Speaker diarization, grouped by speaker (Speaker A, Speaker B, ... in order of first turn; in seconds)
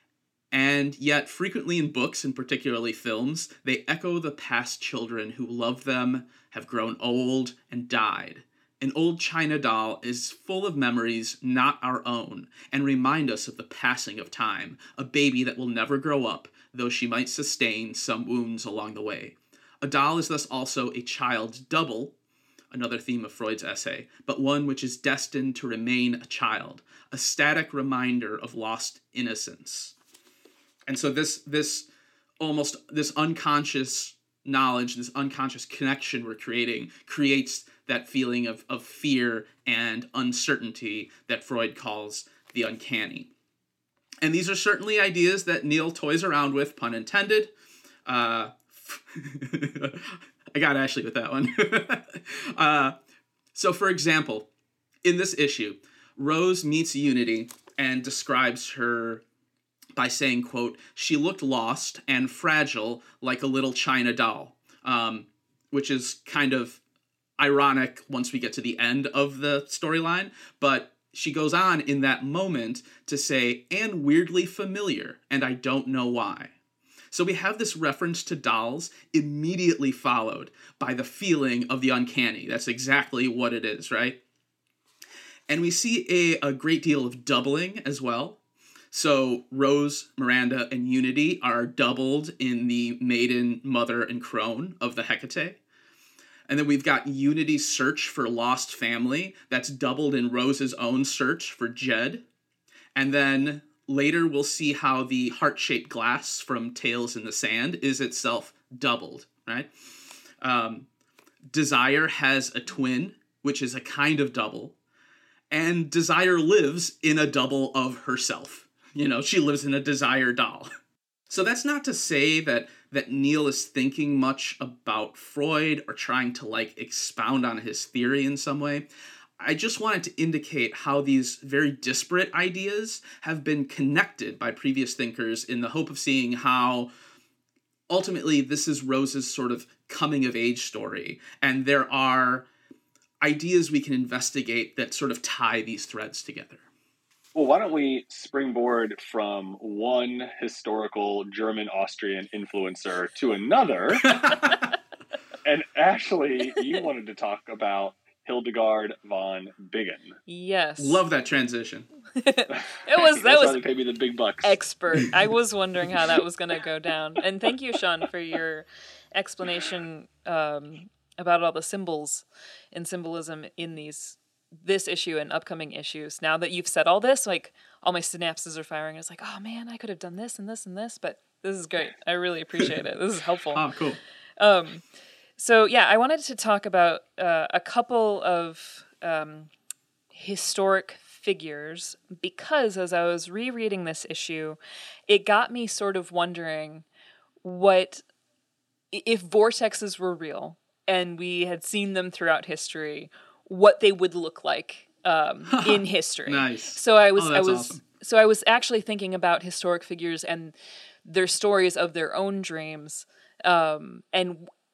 Speaker A: 0.5-22.1, 22.7-29.9, 30.9-31.9, 32.4-43.3, 44.2-47.5, 48.0-53.0, 53.5-54.5, 55.0-59.2, 60.0-66.8, 67.4-76.5, 77.1-84.2, 85.5-88.4, 88.9-95.6, 96.5-102.2, 102.9-109.7, 110.4-110.9, 111.5-114.7, 115.5-120.7, 121.3-128.8, 129.4-136.9, 137.9-142.5, 143.2-146.6, 154.0-154.6, 160.8-161.9, 183.5-184.0, 205.5-207.8
Speaker B: 147.3-154.2, 155.4-160.2, 162.5-164.6
Speaker C: 160.3-161.0, 162.2-163.6, 164.4-183.6, 184.4-184.8, 185.4-189.5, 190.1-196.8, 197.4-198.0, 198.9-214.5